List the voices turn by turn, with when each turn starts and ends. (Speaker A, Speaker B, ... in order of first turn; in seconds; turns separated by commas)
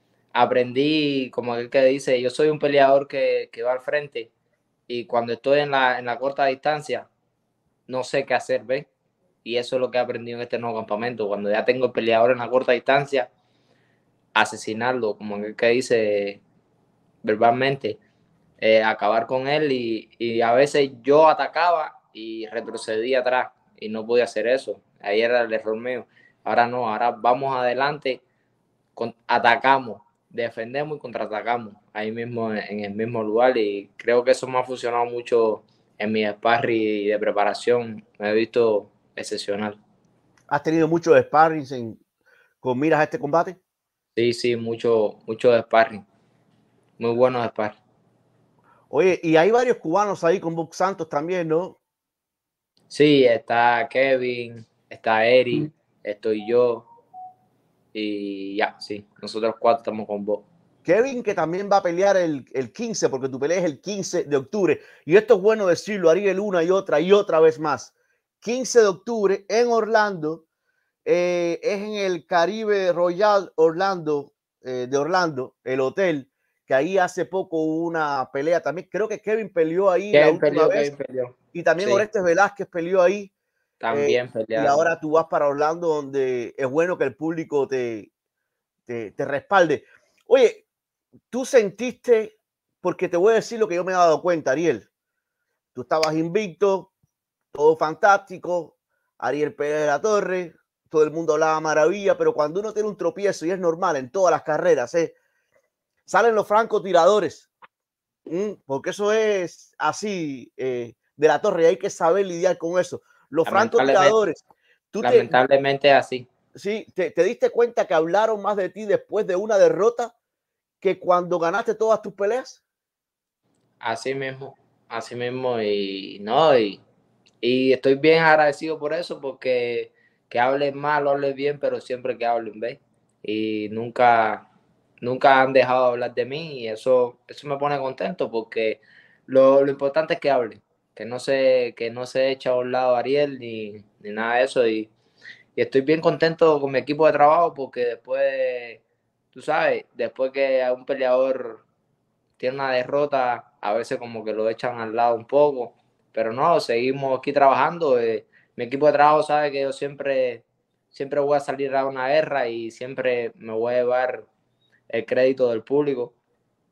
Speaker A: 0.3-4.3, Speaker A: 4.9-7.1, Speaker A: 7.9-8.9, Speaker A: 9.4-13.3, Speaker A: 14.3-16.4, Speaker A: 17.2-18.0, Speaker A: 18.6-28.2, Speaker A: 29.0-39.8, Speaker B: 40.5-42.0, Speaker B: 42.6-43.6, Speaker A: 44.2-46.0, Speaker A: 47.0-47.8, Speaker B: 48.9-51.8, Speaker A: 52.9-56.9, Speaker A: 57.9-60.5, Speaker B: 60.9-70.4, Speaker B: 71.0-80.9, Speaker A: 80.1-82.1, Speaker B: 81.5-83.3, Speaker A: 83.8-84.9, Speaker B: 83.9-88.1, Speaker B: 88.9-90.6, Speaker B: 91.3-94.9, Speaker B: 95.8-96.9, Speaker B: 97.5-105.1, Speaker B: 106.1-107.5, Speaker B: 108.3-115.4, Speaker A: 113.5-114.2, Speaker A: 115.0-116.3, Speaker B: 116.5-120.1, Speaker B: 120.8-122.6, Speaker A: 123.8-126.8, Speaker A: 127.4-134.5, Speaker A: 135.0-144.9, Speaker A: 145.6-151.7, Speaker A: 152.4-164.3, Speaker A: 164.9-166.2